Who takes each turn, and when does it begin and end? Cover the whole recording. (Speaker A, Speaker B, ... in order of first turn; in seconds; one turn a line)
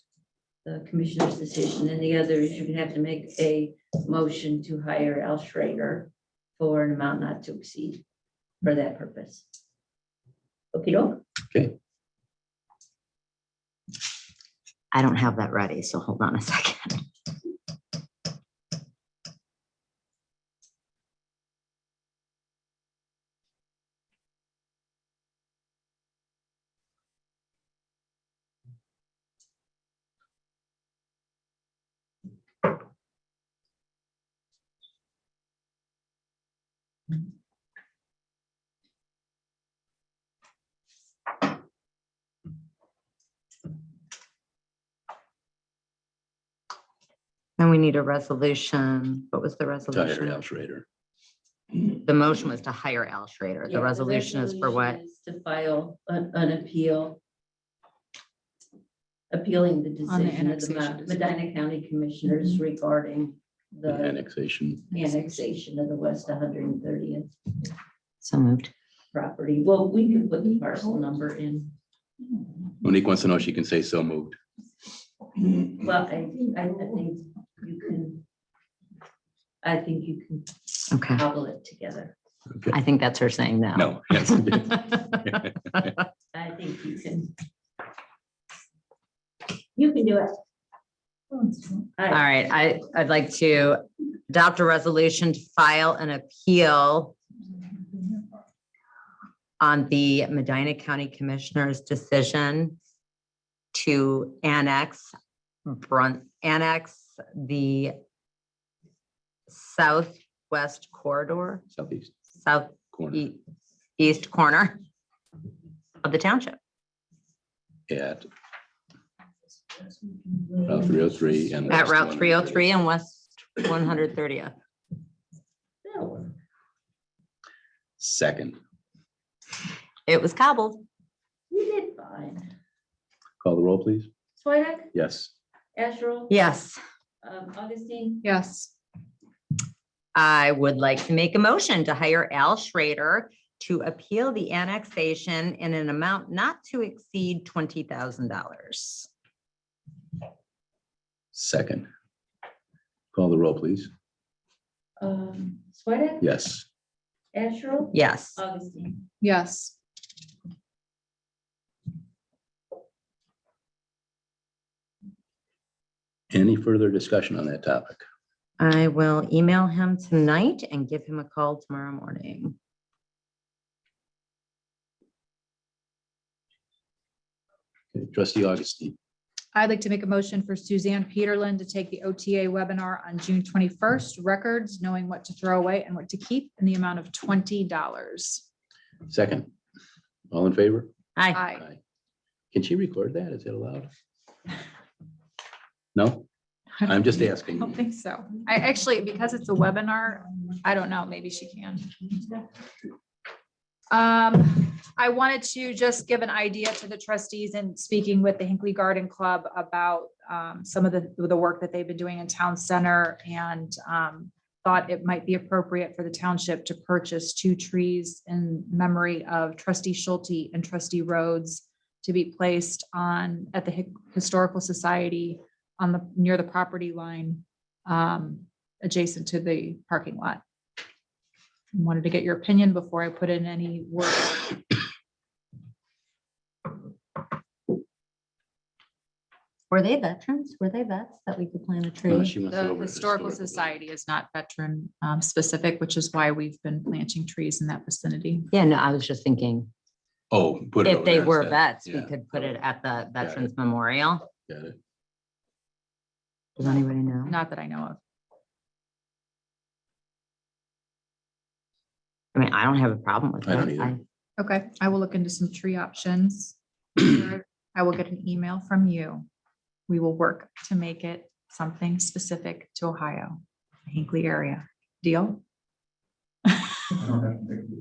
Speaker A: 0.6-8.0
Speaker A: 8.6-9.4
Speaker A: 10.7-11.2
Speaker B: 14.9-17.0
Speaker B: 47.6-50.4
Speaker C: 49.9-50.9
Speaker B: 51.9-55.0
Speaker A: 53.6-57.2
Speaker A: 59.3-64.2
Speaker D: 60.1-61.2
Speaker C: 63.9-64.9
Speaker A: 64.9-67.7
Speaker B: 68.2-68.7
Speaker A: 69.1-71.7
Speaker C: 72.8-74.4
Speaker A: 75.6-78.2
Speaker A: 79.6-82.1
Speaker B: 80.9-81.2
Speaker C: 82.5-82.8
Speaker B: 82.7-85.2
Speaker C: 83.8-85.9
Speaker A: 86.3-87.3
Speaker A: 89.8-90.3
Speaker A: 92.0-92.2
Speaker B: 92.1-97.1
Speaker B: 99.6-102.8
Speaker B: 103.7-105.1
Speaker B: 105.7-108.0
Speaker B: 109.5-111.6
Speaker C: 111.7-112.1
Speaker B: 112.4-113.4
Speaker C: 112.9-113.2
Speaker B: 114.0-114.8
Speaker B: 116.0-116.6
Speaker C: 117.9-118.3
Speaker C: 120.6-122.7
Speaker B: 121.7-124.5
Speaker A: 125.8-126.3
Speaker C: 128.0-128.6
Speaker B: 130.1-130.8
Speaker A: 131.5-132.5
Speaker C: 133.4-134.1
Speaker A: 134.4-134.9
Speaker C: 134.9-135.3
Speaker A: 135.7-136.3
Speaker B: 136.3-136.8
Speaker A: 137.2-138.2
Speaker D: 138.2-138.7
Speaker B: 140.1-149.1
Speaker C: 151.3-151.9
Speaker C: 153.1-153.9
Speaker A: 155.0-156.4
Speaker C: 156.2-156.6
Speaker A: 157.3-159.0
Speaker B: 157.9-158.4
Speaker D: 159.2-159.7
Speaker C: 166.3-168.0
Speaker B: 168.6-172.5
Speaker C: 177.9-178.9
Speaker D: 179.5-188.4
Speaker C: 189.1-189.5
Speaker C: 190.3-190.9
Speaker B: 191.2-191.4
Speaker D: 191.3-191.7
Speaker C: 192.5-193.9
Speaker C: 195.9-196.2
Speaker D: 196.8-202.2
Speaker C: 196.8-197.8
Speaker D: 203.9-230.4
Speaker D: 231.7-234.6
Speaker B: 239.7-242.3
Speaker C: 242.1-243.7
Speaker D: 242.5-248.5
Speaker B: 248.5-249.7
Speaker C: 250.3-252.6
Speaker B: 250.8-254.3
Speaker C: 253.2-253.5
Speaker C: 254.5-254.8
Speaker B: 256.6-257.4
Speaker D: 257.3-258.0
Speaker B: 262.3-264.0
Speaker C: 263.4-263.9
Speaker D: 264.4-269.2
Speaker D: 269.9-275.4
Speaker D: 276.5-277.4